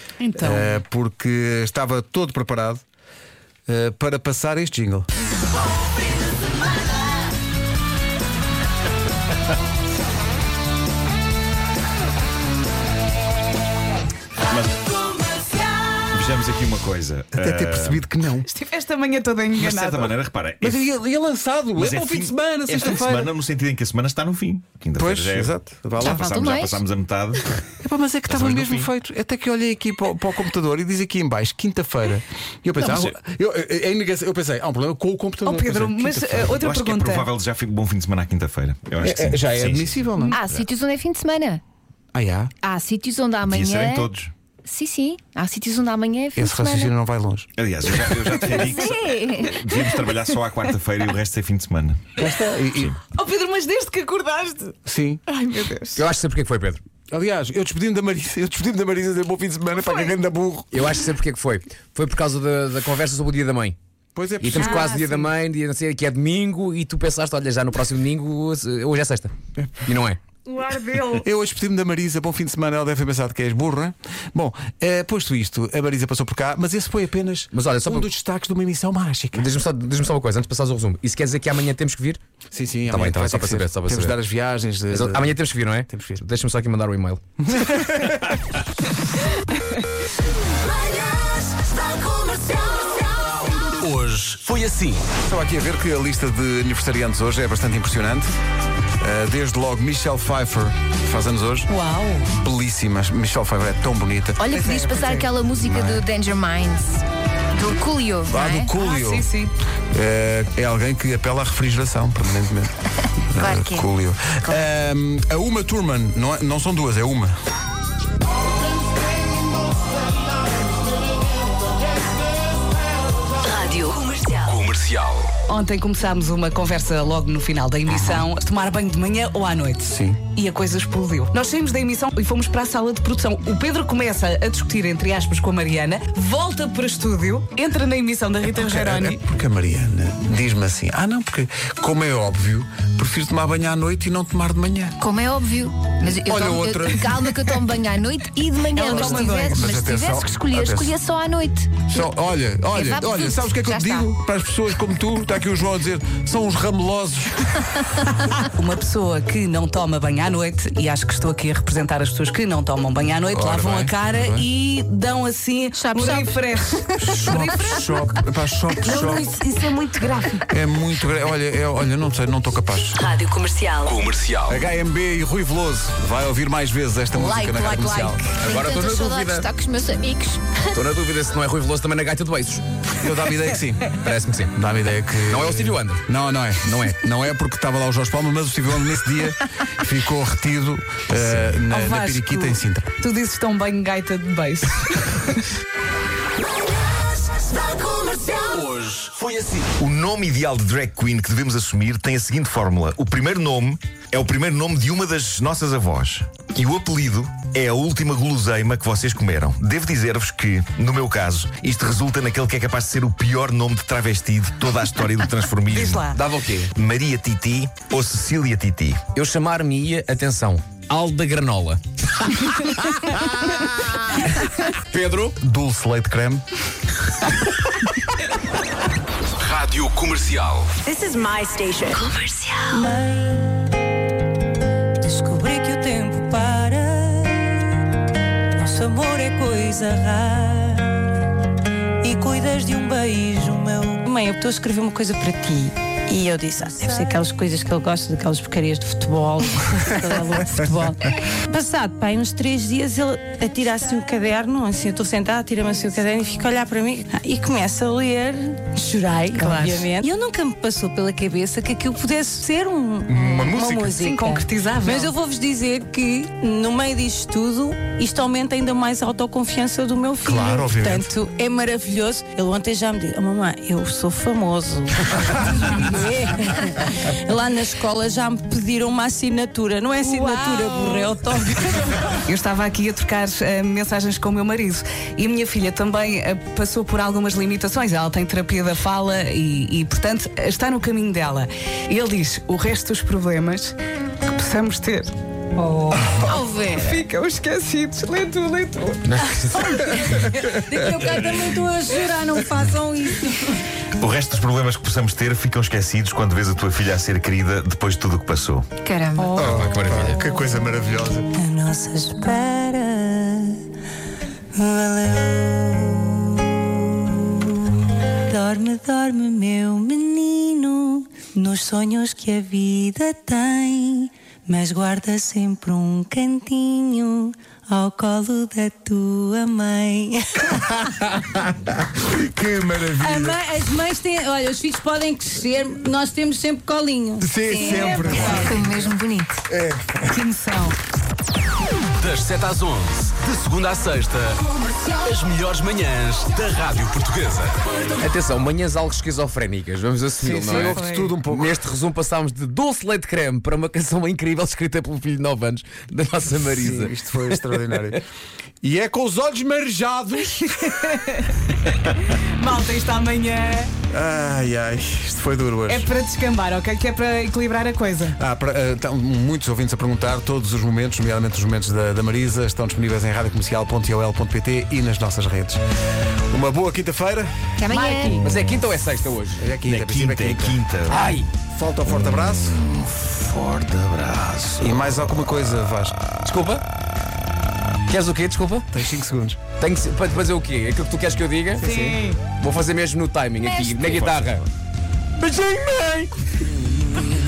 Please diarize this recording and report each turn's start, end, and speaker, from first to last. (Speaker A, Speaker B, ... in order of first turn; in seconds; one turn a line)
Speaker A: 0.2-0.8
Speaker B: 0.4-2.8
Speaker B: 3.7-5.1
Speaker C: 14.5-18.1
Speaker B: 17.4-18.5
Speaker A: 18.4-20.2
Speaker C: 19.6-20.9
Speaker B: 20.6-23.3
Speaker C: 21.8-27.5
Speaker B: 25.0-26.3
Speaker D: 26.0-26.8
Speaker B: 27.8-36.5
Speaker C: 28.3-28.9
Speaker C: 32.8-33.1
Speaker A: 35.4-37.3
Speaker C: 36.5-40.7
Speaker B: 39.0-40.4
Speaker D: 40.3-41.6
Speaker B: 42.1-42.5
Speaker D: 42.6-44.1
Speaker C: 43.4-44.3
Speaker D: 44.6-46.9
Speaker B: 46.4-48.4
Speaker C: 47.6-52.1
Speaker D: 48.4-49.6
Speaker B: 52.2-53.0
Speaker A: 53.1-56.0
Speaker B: 54.9-55.2
Speaker E: 56.0-56.8
Speaker B: 57.1-61.0
Speaker E: 60.7-63.8
Speaker B: 64.2-65.1
Speaker E: 64.4-69.3
Speaker A: 64.6-65.2
Speaker B: 69.6-69.9
Speaker E: 69.9-70.2
Speaker A: 70.5-71.2
Speaker B: 71.1-79.5
Speaker E: 77.5-78.0
Speaker E: 79.3-82.2
Speaker B: 82.5-86.2
Speaker E: 82.9-84.2
Speaker E: 84.9-87.2
Speaker B: 87.4-88.4
Speaker F: 93.7-95.0
Speaker B: 95.2-98.3
Speaker B: 99.0-101.7
Speaker A: 101.7-102.3
Speaker B: 102.3-106.1
Speaker D: 104.4-108.7
Speaker B: 108.3-109.3
Speaker A: 108.8-109.5
Speaker B: 109.9-117.3
Speaker D: 113.4-113.9
Speaker G: 123.4-124.4
Speaker F: 124.4-125.3
Speaker A: 125.4-139.2
Speaker B: 127.9-128.2
Speaker B: 129.9-130.2
Speaker B: 138.6-145.0
Speaker D: 145.0-151.9
Speaker B: 146.2-147.6
Speaker B: 148.8-151.0
Speaker A: 148.8-149.6
Speaker B: 151.9-157.9
Speaker D: 152.7-154.1
Speaker A: 158.6-168.1
Speaker B: 163.3-164.5
Speaker D: 165.8-166.4
Speaker B: 167.0-169.3
Speaker A: 168.8-170.4
Speaker B: 170.5-173.0
Speaker G: 173.0-173.9
Speaker F: 173.8-174.5
Speaker B: 174.5-178.3
Speaker D: 177.2-180.8
Speaker E: 178.3-179.5
Speaker E: 180.7-182.7
Speaker B: 183.0-183.9
Speaker E: 184.0-184.5
Speaker B: 184.5-192.9
Speaker E: 185.3-186.0
Speaker A: 191.7-195.5
Speaker F: 197.7-199.7
Speaker C: 199.8-216.2
Speaker A: 215.7-216.2
Speaker E: 216.2-216.7
Speaker C: 216.7-219.1
Speaker E: 219.1-221.8
Speaker E: 224.9-225.3
Speaker B: 225.4-226.4
Speaker F: 229.4-230.8
Speaker G: 230.8-232.6
Speaker H: 232.7-233.7
Speaker H: 235.0-237.8
Speaker H: 238.5-241.1
Speaker H: 242.0-282.0
Speaker A: 259.3-259.9
Speaker B: 263.1-263.9
Speaker A: 263.9-265.1
Speaker B: 270.2-271.1
Speaker A: 280.0-281.1
Speaker A: 282.2-295.1
Speaker D: 295.8-297.0
Speaker A: 296.7-299.9
Speaker E: 299.2-299.5
Speaker H: 299.5-303.6
Speaker C: 304.0-308.7
Speaker D: 308.8-309.4
Speaker H: 309.2-309.7
Speaker B: 309.3-311.3
Speaker E: 309.4-310.1
Speaker H: 311.4-313.6
Speaker H: 314.5-317.7
Speaker H: 318.3-330.5
Speaker B: 330.6-333.4
Speaker H: 333.0-338.6
Speaker B: 337.2-338.9
Speaker A: 337.5-338.4
Speaker D: 338.3-339.4
Speaker B: 339.5-340.0
Speaker A: 340.1-340.8
Speaker F: 342.0-347.6
Speaker E: 348.0-357.4
Speaker B: 350.2-351.6
Speaker A: 350.5-351.1
Speaker B: 356.3-358.1
Speaker B: 358.6-360.8
Speaker A: 360.5-363.7
Speaker B: 363.9-365.9
Speaker A: 365.7-368.2
Speaker B: 368.2-375.6
Speaker B: 376.3-377.4
Speaker D: 377.6-378.2
Speaker E: 377.8-379.4
Speaker B: 379.4-380.6
Speaker C: 379.7-381.0
Speaker E: 380.9-381.3
Speaker B: 381.5-382.6
Speaker C: 382.3-384.8
Speaker B: 384.6-386.0
Speaker E: 386.2-386.6
Speaker E: 387.9-388.7
Speaker B: 388.7-389.4
Speaker E: 389.6-391.6
Speaker B: 391.6-392.0
Speaker A: 391.6-392.2
Speaker E: 392.3-394.4
Speaker D: 393.5-394.1
Speaker C: 393.8-394.4
Speaker E: 395.2-396.1